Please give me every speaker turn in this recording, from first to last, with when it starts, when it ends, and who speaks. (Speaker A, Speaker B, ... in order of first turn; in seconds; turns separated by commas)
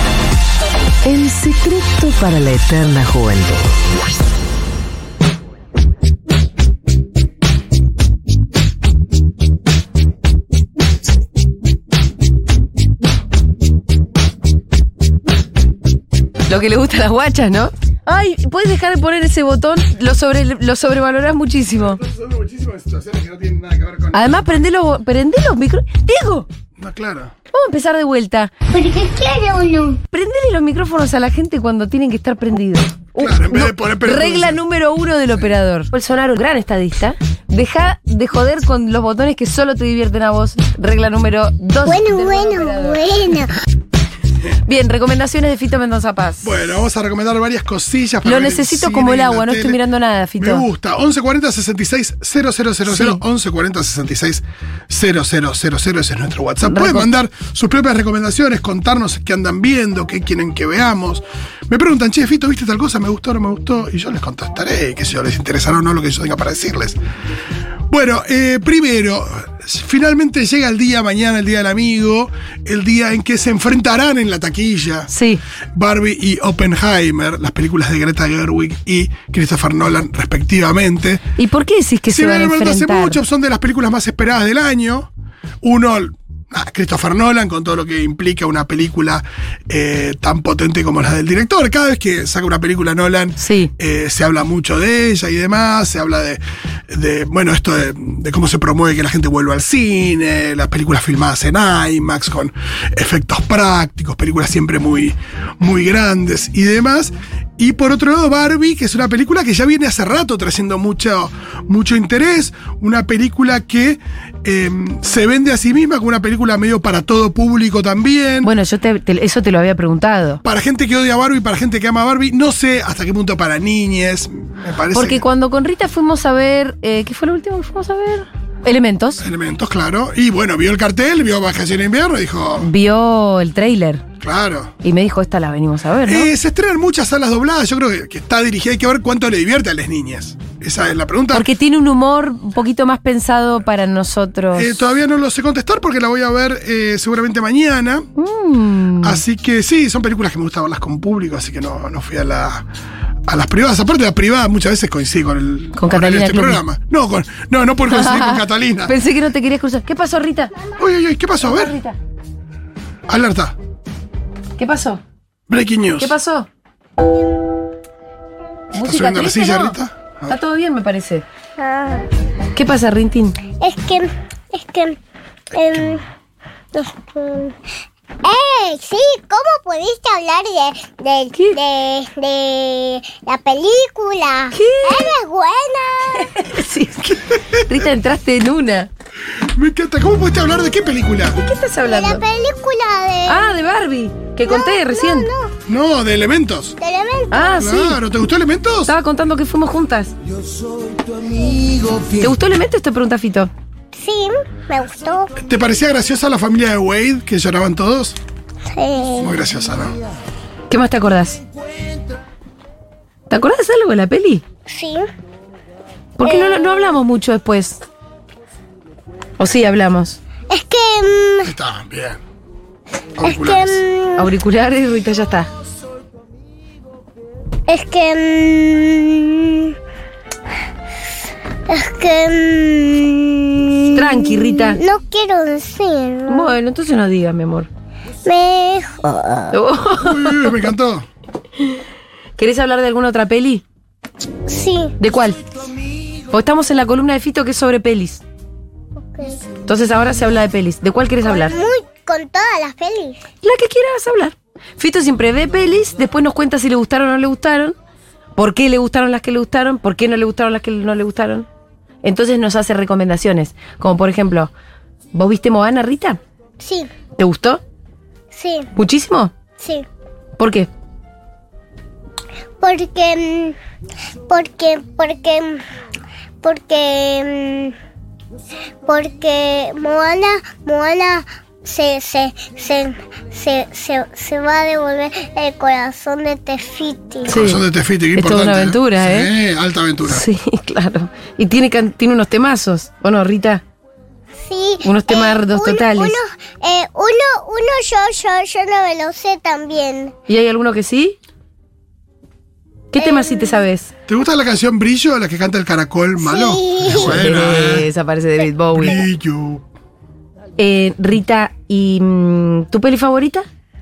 Speaker A: 1.0-3.7, Speaker B: 16.5-22.0, Speaker C: 21.8-24.2, Speaker B: 24.1-26.5, Speaker C: 26.8-27.3, Speaker B: 27.5-28.5, Speaker D: 28.7-30.0, Speaker B: 30.1-43.0, Speaker C: 33.2-34.6, Speaker D: 41.9-43.5, Speaker B: 44.7-46.5, Speaker C: 46.4-49.8, Speaker B: 48.2-50.6, Speaker C: 50.4-67.0, Speaker B: 52.9-53.2, Speaker B: 56.6-57.1, Speaker C: 67.9-75.1, Speaker B: 75.1-75.4, Speaker C: 75.7-81.2, Speaker B: 81.4-83.2, Speaker C: 82.1-85.1, Speaker C: 85.6-118.5, Speaker B: 93.4-93.7, Speaker B: 118.4-120.4, Speaker C: 120.4-125.2, Speaker B: 124.9-129.2, Speaker C: 129.2-132.7, Speaker B: 132.6-134.0, Speaker C: 134.2-134.7, Speaker B: 134.8-136.3, Speaker C: 136.1-141.4, Speaker B: 141.3-144.8, Speaker C: 144.5-148.1, Speaker B: 148.2-149.2, Speaker C: 149.0-152.7, Speaker C: 153.3-158.9, Speaker B: 155.8-156.6, Speaker B: 157.9-160.5, Speaker C: 160.8-161.7, Speaker B: 161.4-162.0, Speaker C: 163.1-163.6, Speaker B: 164.6-165.0, Speaker C: 165.5-166.1, Speaker B: 166.0-166.5, Speaker B: 168.7-169.8, Speaker C: 168.8-170.4, Speaker B: 170.3-171.2, Speaker D: 171.6-172.0, Speaker B: 172.6-173.4, Speaker D: 173.6-175.0, Speaker D: 175.5-176.0, Speaker D: 176.7-177.6, Speaker D: 178.2-186.3, Speaker B: 184.5-185.1, Speaker B: 186.2-188.9, Speaker C: 187.0-187.6, Speaker C: 189.4-191.4, Speaker B: 191.4-192.2, Speaker D: 191.8-193.5, Speaker B: 193.3-195.3, Speaker D: 194.5-195.5, Speaker C: 195.7-196.8, Speaker D: 196.8-197.6, Speaker B: 197.3-198.0, Speaker C: 197.6-198.9, Speaker B: 198.9-200.1, Speaker D: 201.1-201.9, Speaker B: 202.1-203.5, Speaker D: 203.9-205.3, Speaker C: 205.4-208.2, Speaker D: 208.7-209.4, Speaker C: 209.2-209.9, Speaker B: 210.7-211.4, Speaker B: 213.3-214.4, Speaker D: 214.7-215.1, Speaker B: 216.2-217.8, Speaker D: 216.2-217.0, Speaker B: 219.4-220.2, Speaker D: 220.5-221.5, Speaker C: 221.4-222.2, Speaker C: 223.2-223.8, Speaker D: 223.2-224.3, Speaker B: 224.2-225.5, Speaker D: 227.7-229.8, Speaker D: 231.7-236.6, Speaker B: 233.9-234.8, Speaker B: 236.3-237.7, Speaker D: 238.2-239.6, Speaker B: 239.5-240.7, Speaker C: 240.0-241.1, Speaker B: 242.4-243.6, Speaker D: 244.5-245.0, Speaker B: 245.0-245.4, Speaker B: 246.3-248.2, Speaker D: 249.0-249.4, Speaker B: 249.7-251.6, Speaker D: 251.2-253.2, Speaker B: 253.4-257.8, Speaker B: 258.4-261.5, Speaker B: 262.0-264.5, Speaker B: 265.1-266.2, Speaker D: 266.6-266.9, Speaker B: 267.2-267.6, Speaker D: 268.3-268.7, Speaker B: 268.8-269.3, Speaker D: 269.6-269.9, Speaker B: 270.4-270.7, Speaker D: 272.6-273.6, Speaker D: 274.3-275.6, Speaker D: 276.4-277.8, Speaker D: 278.9-287.3, Speaker B: 287.3-287.6, Speaker C: 287.3-290.2, Speaker B: 288.2-289.3, Speaker B: 290.1-293.6, Speaker D: 294.4-300.1, Speaker B: 294.8-296.2, Speaker B: 300.3-301.2, Speaker B: 302.9-303.9, Speaker D: 303.0-303.6, Speaker C: 304.1-307.9, Speaker D: 306.2-307.2, Speaker B: 307.0-309.1, Speaker C: 308.8-309.6, Speaker B: 310.6-313.5